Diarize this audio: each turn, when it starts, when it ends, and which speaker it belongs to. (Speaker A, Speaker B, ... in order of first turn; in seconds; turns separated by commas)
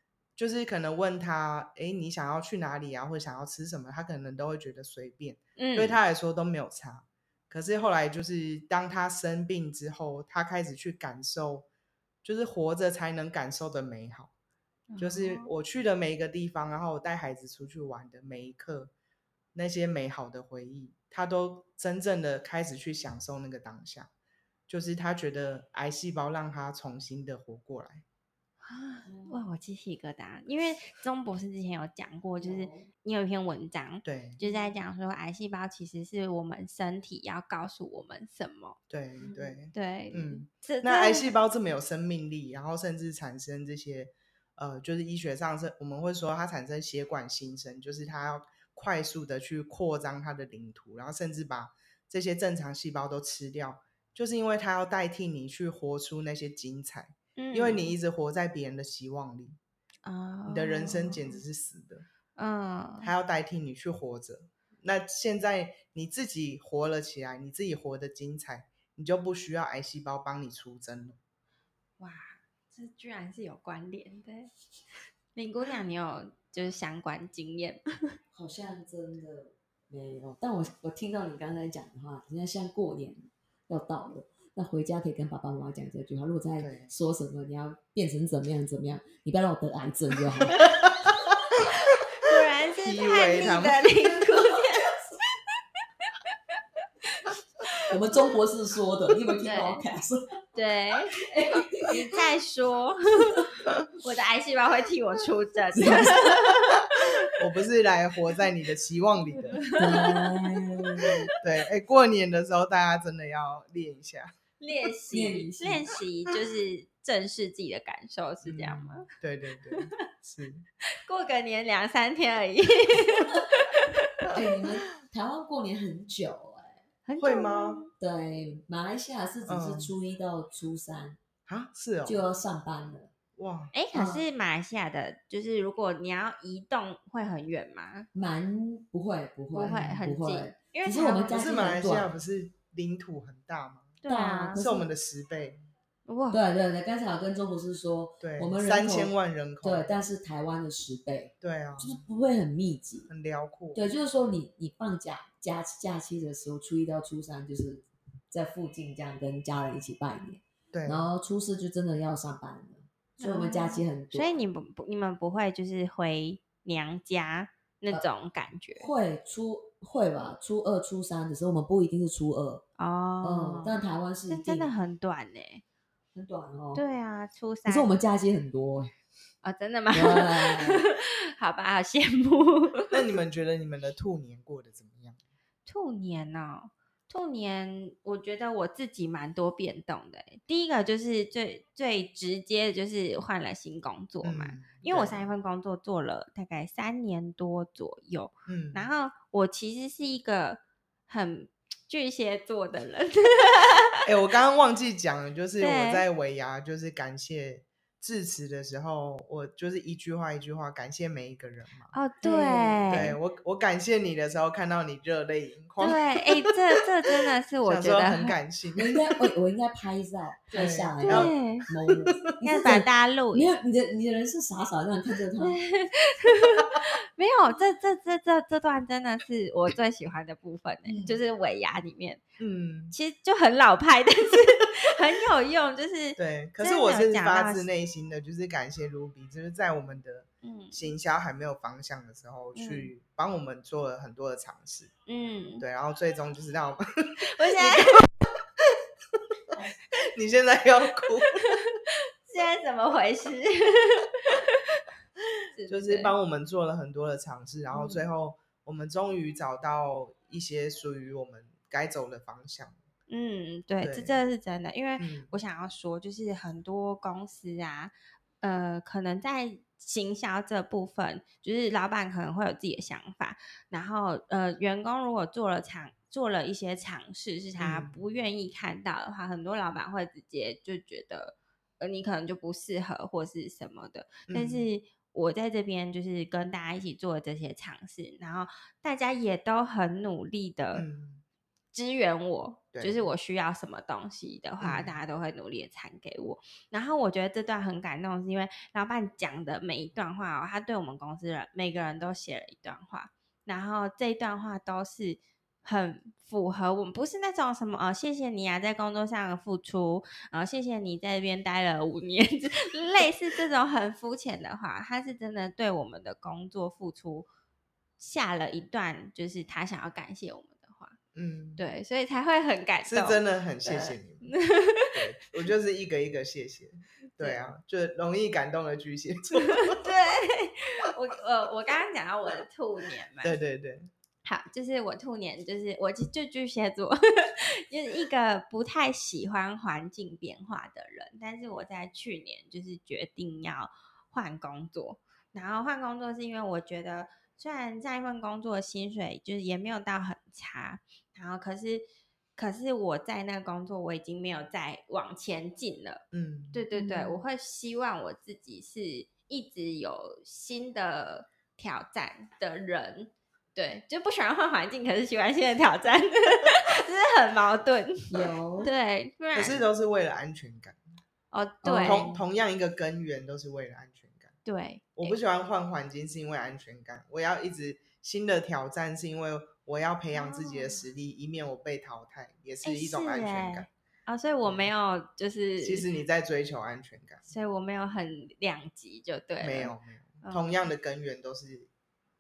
Speaker A: 0.4-11.7, Speaker B: 5.6-6.0, Speaker A: 12.2-14.3, Speaker B: 14.9-15.5, Speaker A: 15.0-18.9, Speaker A: 19.5-24.1, Speaker A: 24.7-28.0, Speaker B: 28.6-38.8, Speaker C: 29.1-29.4, Speaker C: 32.4-32.9, Speaker A: 34.0-34.4, Speaker C: 34.4-34.7, Speaker A: 38.9-59.6, Speaker C: 39.2-39.6, Speaker B: 39.7-41.3, Speaker B: 57.4-57.9, Speaker B: 60.0-61.4, Speaker A: 60.5-62.1, Speaker B: 62.4-63.1, Speaker A: 63.0-71.2, Speaker B: 72.0-74.5, Speaker B: 75.3-78.2, Speaker C: 78.3-91.1, Speaker A: 86.6-86.9, Speaker A: 90.6-91.7, Speaker B: 91.8-94.9, Speaker A: 92.8-94.2, Speaker B: 97.1-98.0, Speaker C: 97.9-100.3, Speaker B: 99.4-99.8, Speaker B: 100.5-106.8, Speaker C: 101.2-102.2, Speaker C: 105.8-106.5, Speaker A: 107.3-109.6, Speaker B: 109.5-111.3, Speaker C: 109.8-111.3, Speaker A: 111.4-114.3, Speaker B: 114.6-119.1, Speaker C: 115.1-115.9, Speaker A: 118.4-120.7, Speaker B: 120.9-124.4, Speaker C: 124.3-126.8, Speaker B: 127.1-127.9, Speaker A: 127.2-127.8, Speaker C: 128.0-131.2, Speaker A: 129.4-129.9, Speaker A: 131.5-132.2, Speaker C: 132.1-133.1, Speaker A: 133.4-133.7, Speaker B: 133.7-138.1, Speaker C: 133.9-134.2, Speaker C: 138.1-142.1, Speaker B: 139.5-141.4, Speaker A: 141.3-143.9, Speaker B: 144.0-144.6, Speaker C: 144.1-144.9, Speaker A: 144.6-145.6, Speaker B: 146.1-146.4, Speaker C: 146.3-153.1, Speaker A: 148.2-150.0, Speaker A: 151.4-152.0, Speaker A: 153.1-153.9, Speaker C: 153.7-164.3, Speaker A: 160.7-161.1, Speaker B: 163.2-168.9, Speaker C: 168.8-172.7, Speaker B: 172.8-175.6, Speaker C: 173.2-174.7, Speaker C: 176.1-176.8, Speaker B: 176.8-177.9, Speaker C: 177.7-178.9, Speaker B: 179.4-183.0, Speaker C: 179.9-180.8, Speaker A: 182.9-185.2, Speaker B: 185.7-204.0, Speaker A: 194.2-195.3, Speaker A: 198.5-198.9, Speaker A: 204.1-211.9, Speaker B: 205.6-206.0, Speaker B: 211.9-213.2, Speaker C: 212.2-213.2, Speaker A: 212.9-216.8, Speaker B: 215.8-218.4, Speaker A: 217.6-219.0, Speaker C: 218.8-225.6, Speaker A: 220.5-221.4, Speaker B: 221.0-221.7, Speaker A: 221.9-222.3, Speaker B: 222.4-223.6, Speaker B: 225.4-232.2, Speaker C: 230.9-231.2, Speaker A: 232.4-233.0, Speaker B: 232.9-237.7, Speaker A: 236.2-244.9, Speaker B: 240.4-240.9, Speaker B: 242.6-242.9, Speaker B: 245.1-245.7, Speaker A: 245.6-248.1, Speaker B: 247.3-248.1, Speaker A: 249.5-251.6, Speaker B: 251.5-254.8, Speaker B: 255.6-256.1, Speaker A: 255.7-262.8, Speaker B: 257.7-258.0, Speaker B: 263.1-290.9, Speaker A: 263.8-264.2, Speaker A: 265.0-265.3, Speaker A: 277.6-278.0, Speaker A: 284.3-284.7, Speaker A: 290.7-291.2, Speaker B: 291.7-317.3, Speaker A: 292.7-293.0, Speaker A: 294.6-295.0, Speaker B: 318.0-321.0, Speaker A: 321.1-321.6, Speaker B: 321.6-325.0, Speaker A: 322.9-324.3, Speaker A: 324.9-329.8, Speaker B: 329.4-333.4, Speaker A: 333.2-333.9, Speaker B: 334.2-351.9, Speaker B: 352.4-369.6, Speaker A: 356.1-356.6, Speaker C: 356.7-357.2, Speaker C: 368.1-368.7, Speaker A: 369.3-370.8, Speaker B: 371.3-372.1, Speaker C: 371.6-372.2, Speaker A: 371.8-374.4, Speaker B: 374.4-375.2, Speaker A: 374.9-383.7, Speaker B: 380.1-380.8, Speaker B: 382.6-385.9, Speaker A: 384.4-384.7, Speaker A: 385.6-387.3, Speaker B: 387.3-390.7, Speaker A: 389.4-391.7